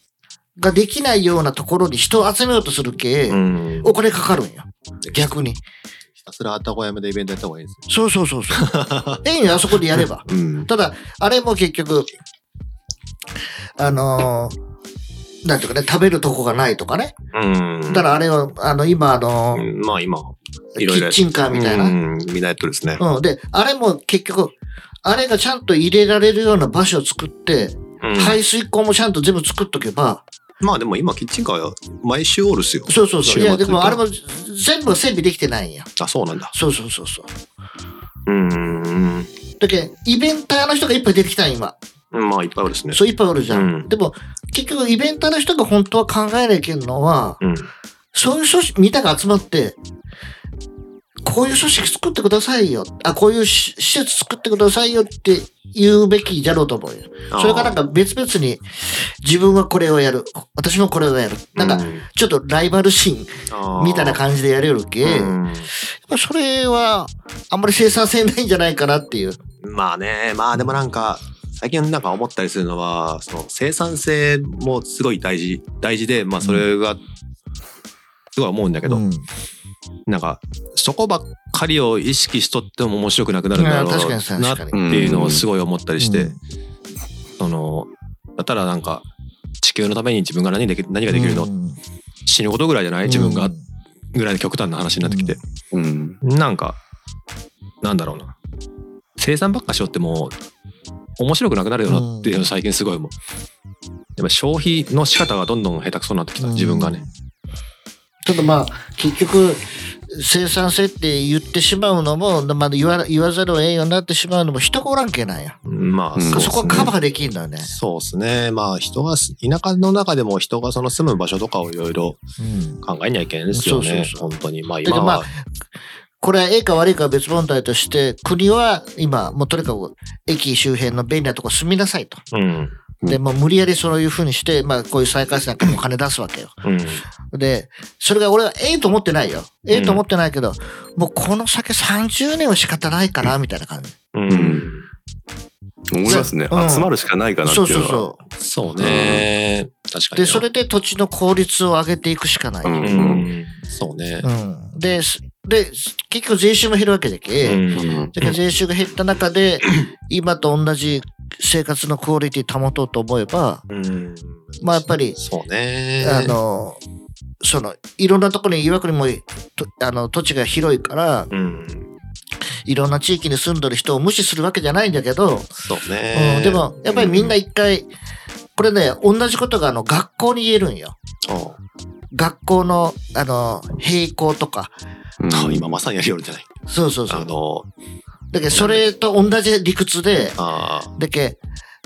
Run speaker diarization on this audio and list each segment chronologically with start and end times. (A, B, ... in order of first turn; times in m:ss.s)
0:00.6-0:05.6 A
0:03.3-0:04.0 B
0:05.0-0:05.4 B
0:06.2-0:07.9 B
0:07.9-0:12.1 A
0:08.5-0:09.2 B
0:09.7-0:10.7 B
0:13.8-0:14.5 A
0:15.4-0:17.2 A
0:17.3-0:18.1 B
0:17.9-0:19.6 A
0:19.5-0:23.0 B
0:20.8-0:22.0 A
0:23.0-0:30.2 A
0:28.0-0:28.4 B
0:30.6-0:34.0 B
0:32.9-0:35.9 A
0:36.0-0:36.5 B
0:36.5-0:37.3 A
0:38.3-0:39.3 B
0:39.6-0:41.8 A
0:42.1-0:43.9 B
0:42.9-0:47.4 A
0:47.4-0:47.7 B
0:48.1-0:49.8 A
0:51.2-1:09.4 A
0:57.3-0:57.8 B
1:01.5-1:02.0 B
1:03.5-1:04.2 B
1:05.0-1:05.7 B
1:09.6-1:17.0 B
1:16.4-1:16.6 A
1:18.3-1:19.0 B
1:18.8-1:19.2 A
1:20.1-1:26.3 B
1:23.5-1:24.8 A
1:24.7-1:25.4 C
1:26.0-1:26.4 A
1:27.4-1:29.0 B
1:29.6-1:31.5 B
1:31.1-1:31.8 A
1:32.2-1:33.5 B
1:33.0-1:33.6 A
1:34.1-1:35.4 B
1:35.0-1:35.4 A
1:35.7-1:36.2 C
1:36.2-1:36.8 B
1:37.8-1:38.3 B
1:39.2-1:40.3 B
1:41.2-1:43.1 B
1:41.9-1:42.4 A
1:44.2-1:47.0 B
1:46.4-1:47.1 A
1:48.2-1:55.6 A
1:55.6-1:56.9 B
1:56.2-1:56.9 C
1:56.3-1:57.7 A
1:57.6-2:02.2 B
2:02.4-2:02.8 A
2:02.8-2:05.3 B
2:03.5-2:04.3 A
2:04.8-2:05.3 A
2:06.2-2:12.2 A
2:12.3-2:12.7 B
2:13.1-2:16.5 A
2:16.6-2:17.0 B
2:17.3-2:24.0 A
2:19.7-2:20.0 B
2:24.1-2:24.8 B
2:24.3-2:24.7 C
2:25.9-2:28.1 C
2:26.0-2:26.9 A
2:27.4-2:28.2 A
2:28.4-2:30.4 B
2:28.7-2:29.3 C
2:30.1-2:32.9 A
2:32.6-2:33.3 C
2:32.8-2:34.3 B
2:34.2-2:43.6 A
2:37.4-2:38.3 B
2:37.7-2:38.1 C
2:43.7-2:46.4 B
2:44.6-2:45.2 A
2:46.0-2:46.8 A
2:47.4-2:51.3 A
2:51.3-2:51.9 B
2:52.6-2:55.5 A
2:55.6-2:57.4 B
2:56.1-2:57.9 A
2:58.6-3:01.0 A
3:01.2-3:01.6 B
3:02.1-3:04.7 A
3:05.2-3:05.8 C
3:05.3-3:06.5 B
3:06.7-3:07.3 A
3:07.1-3:07.7 B
3:08.3-3:10.4 A
3:08.5-3:08.9 B
3:10.4-3:10.9 B
3:10.9-3:11.4 A